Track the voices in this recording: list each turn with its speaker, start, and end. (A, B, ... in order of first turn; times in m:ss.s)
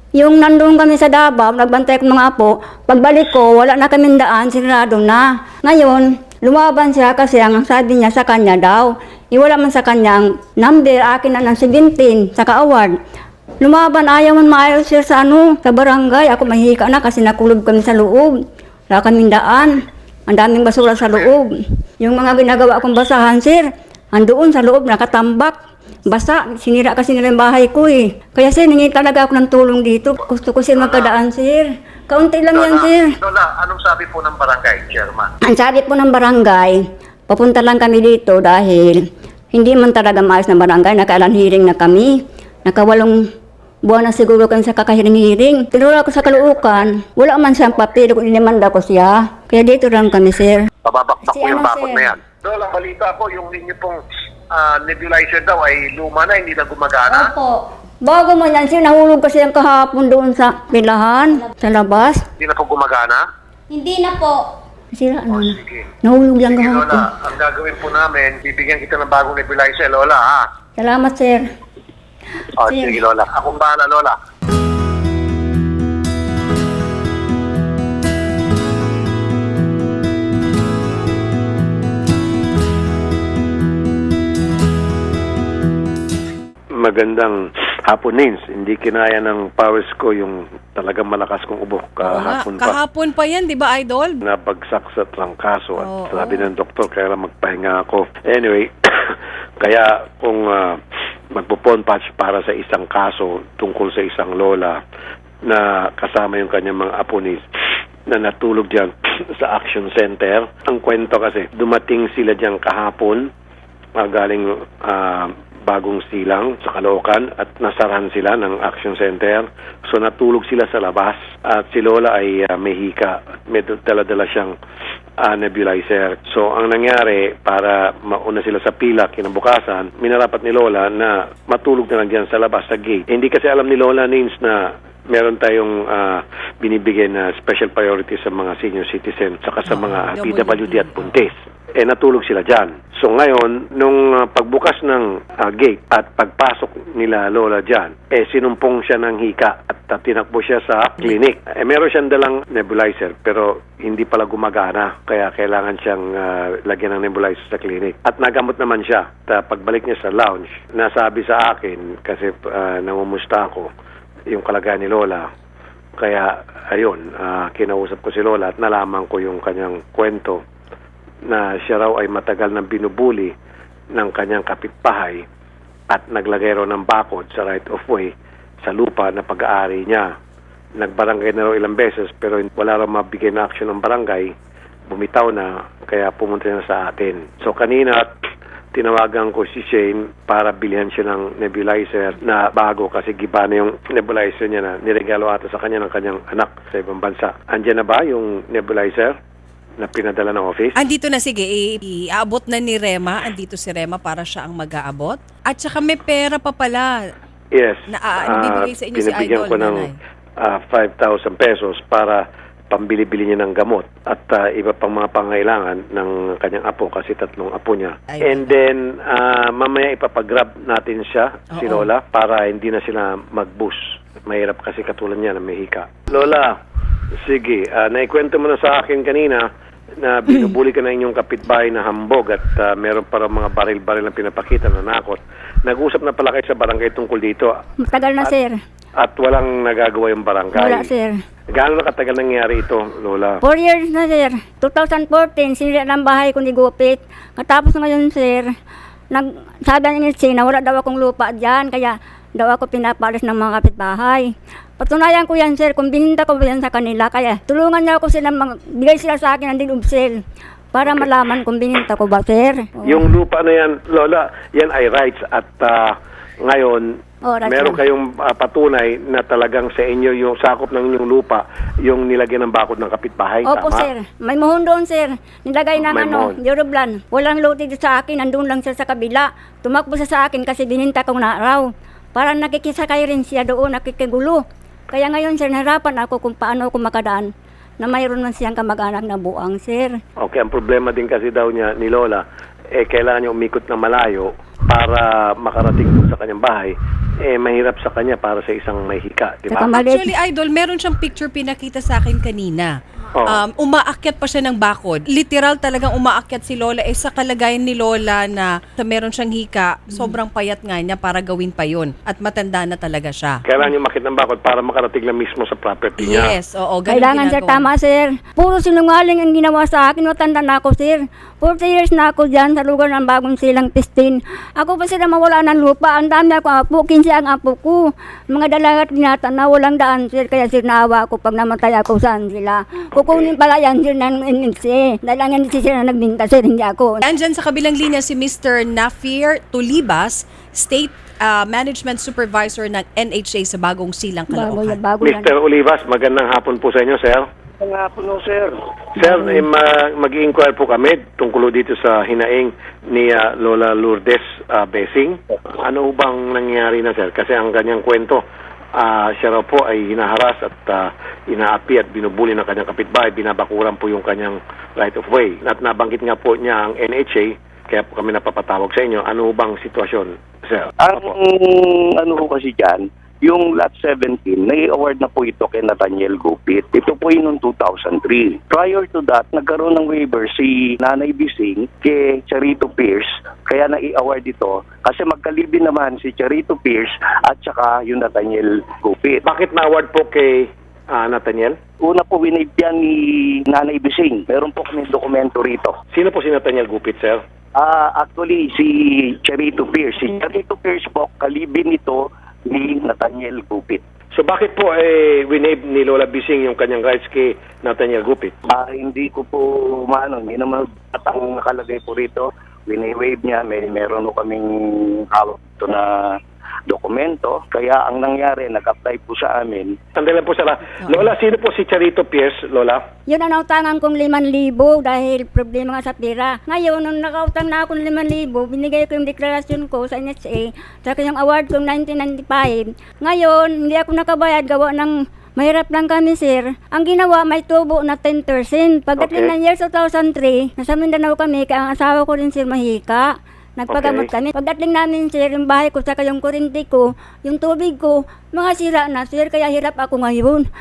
0:00.2-0:13.0 A
0:13.6-0:18.3 A
0:18.9-0:19.7 A
0:20.3-0:21.5 A
0:22.0-0:25.6 A
0:26.1-0:33.1 A
0:30.7-0:31.2 B
0:32.5-0:35.3 B
0:35.4-0:42.1 A
0:42.6-0:43.2 A
0:43.8-0:50.7 A
0:50.8-0:57.3 B
0:51.2-0:52.1 A
0:57.1-1:02.2 A
1:02.4-1:03.2 B
1:03.7-1:04.4 A
1:04.9-1:07.0 A
1:05.3-1:05.8 B
1:06.4-1:10.5 B
1:10.8-1:11.4 A
1:12.6-1:14.2 B
1:12.6-1:13.0 A
1:26.7-1:32.8 C
1:32.0-1:34.2 D
1:34.2-1:40.8 C
1:35.8-1:36.5 D
1:41.3-1:44.8 C
1:45.4-1:47.4 C
1:48.1-1:53.3 C
1:54.0-2:04.5 C
2:05.2-2:43.7 C
2:19.6-2:21.2 D
2:44.3-2:45.3 C
2:46.0-2:50.4 C
2:51.3-2:53.3 C
2:53.9-2:55.2 C
2:55.9-3:00.1 C
3:00.8-3:04.3 C
3:04.9-3:08.1 C
3:08.7-3:19.2 C
3:19.8-3:20.8 C
3:20.8-3:26.9 D
3:27.5-3:46.5 C
3:27.9-3:30.0 D
3:38.1-3:38.6 D
3:41.6-3:41.9 D
3:47.2-3:49.5 C
3:50.0-3:57.6 C
3:57.8-3:58.6 A
3:59.0-4:00.9 C
4:00.5-4:01.1 A
4:01.5-4:03.4 C
4:03.4-4:08.5 A
4:09.1-4:20.2 A
4:20.7-4:23.1 A
4:22.8-4:33.9 C
4:27.2-4:27.8 A
4:33.4-4:50.0 A
4:35.8-4:36.4 C
4:50.2-4:59.8 C
4:59.5-5:00.1 A
4:59.7-5:02.7 D
5:03.2-5:03.4 C
5:03.2-5:13.4 D
5:13.4-5:16.4 C
5:16.0-5:17.7 D
5:16.9-5:37.0 A
5:33.0-5:33.2 C
5:37.0-5:44.8 D
5:44.3-5:45.3 A
5:45.0-5:47.3 C
5:47.6-5:48.6 E
5:49.0-5:58.2 C
5:49.0-5:49.4 A
5:58.7-6:10.7 C
6:10.8-6:29.2 E
6:29.2-6:31.6 C
6:31.8-6:35.8 E
6:35.9-6:37.2 C
6:37.5-6:43.8 E
6:44.1-6:48.3 C
6:48.5-6:59.8 E
7:00.0-7:02.8 C
7:03.1-7:30.5 A
7:19.0-7:19.3 C
7:23.7-7:24.1 C